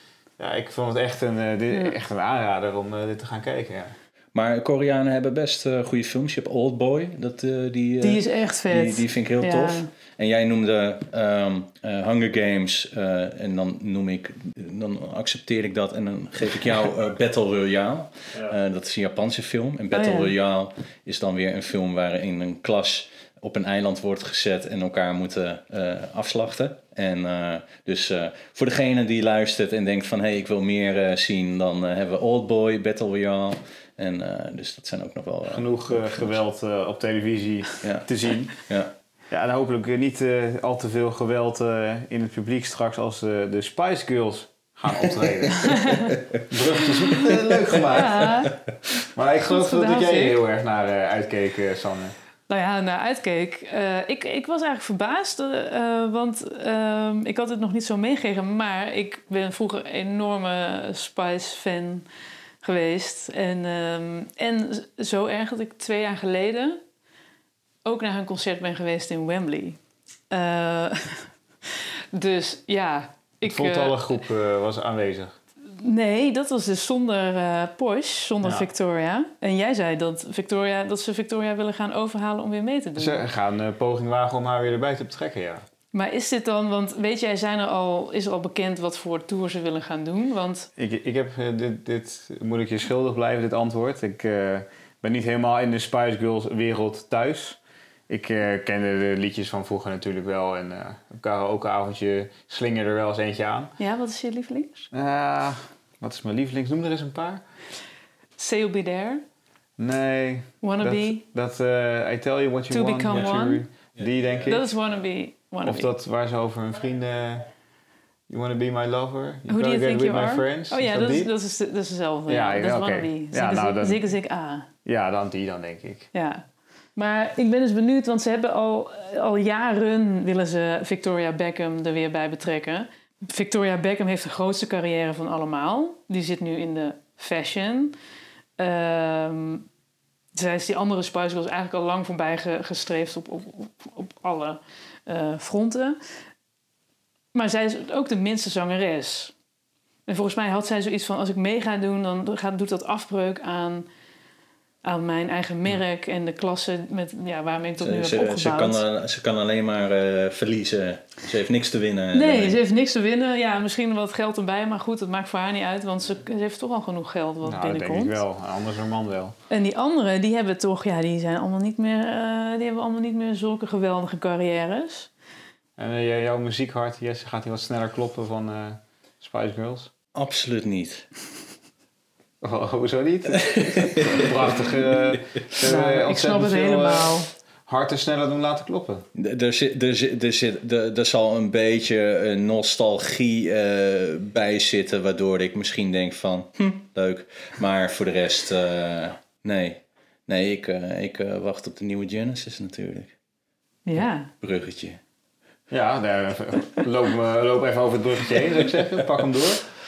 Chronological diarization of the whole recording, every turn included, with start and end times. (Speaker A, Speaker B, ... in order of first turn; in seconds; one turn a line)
Speaker A: 0.4-4.0
Speaker B: 4.3-36.4
Speaker C: 8.0-9.9
Speaker C: 19.9-20.3
Speaker A: 35.5-38.6
Speaker B: 37.8-38.1
Speaker B: 38.6-38.9
Speaker A: 39.3-46.0
Speaker C: 45.6-46.1
Speaker B: 45.7-46.4
Speaker A: 46.5-48.3
Speaker C: 47.9-48.5
Speaker A: 49.1-52.1
Speaker C: 49.5-50.4
Speaker C: 52.5-62.0
Speaker C: 62.6-66.8
Speaker C: 67.8-69.8
Speaker C: 70.3-71.3
Speaker C: 72.1-74.0
Speaker A: 73.5-75.4
Speaker C: 75.7-83.2
Speaker A: 78.4-78.7
Speaker A: 83.0-85.6
Speaker C: 85.9-90.7
Speaker A: 90.8-103.7
Speaker C: 103.8-104.9
Speaker A: 104.9-107.4
Speaker C: 108.4-109.2
Speaker A: 109.8-114.7
Speaker C: 110.6-111.2
Speaker C: 112.7-113.6
Speaker C: 114.5-115.9
Speaker A: 115.6-117.5
Speaker A: 118.3-121.3
Speaker C: 119.5-124.7
Speaker A: 122.3-124.0
Speaker A: 124.8-126.1
Speaker C: 126.1-126.5
Speaker C: 127.0-138.0
Speaker C: 138.6-139.7
Speaker C: 140.3-146.0
Speaker C: 147.3-149.3
Speaker C: 150.1-153.9
Speaker C: 154.8-158.8
Speaker B: 157.8-162.6
Speaker C: 162.1-168.2
Speaker A: 167.4-169.4
Speaker C: 169.5-175.1
Speaker A: 175.8-179.9
Speaker B: 180.2-181.1
Speaker A: 182.4-189.1
Speaker B: 183.8-185.2
Speaker C: 185.6-187.3
Speaker B: 189.2-203.2
Speaker C: 203.9-204.3
Speaker B: 204.0-205.0
Speaker A: 205.7-209.6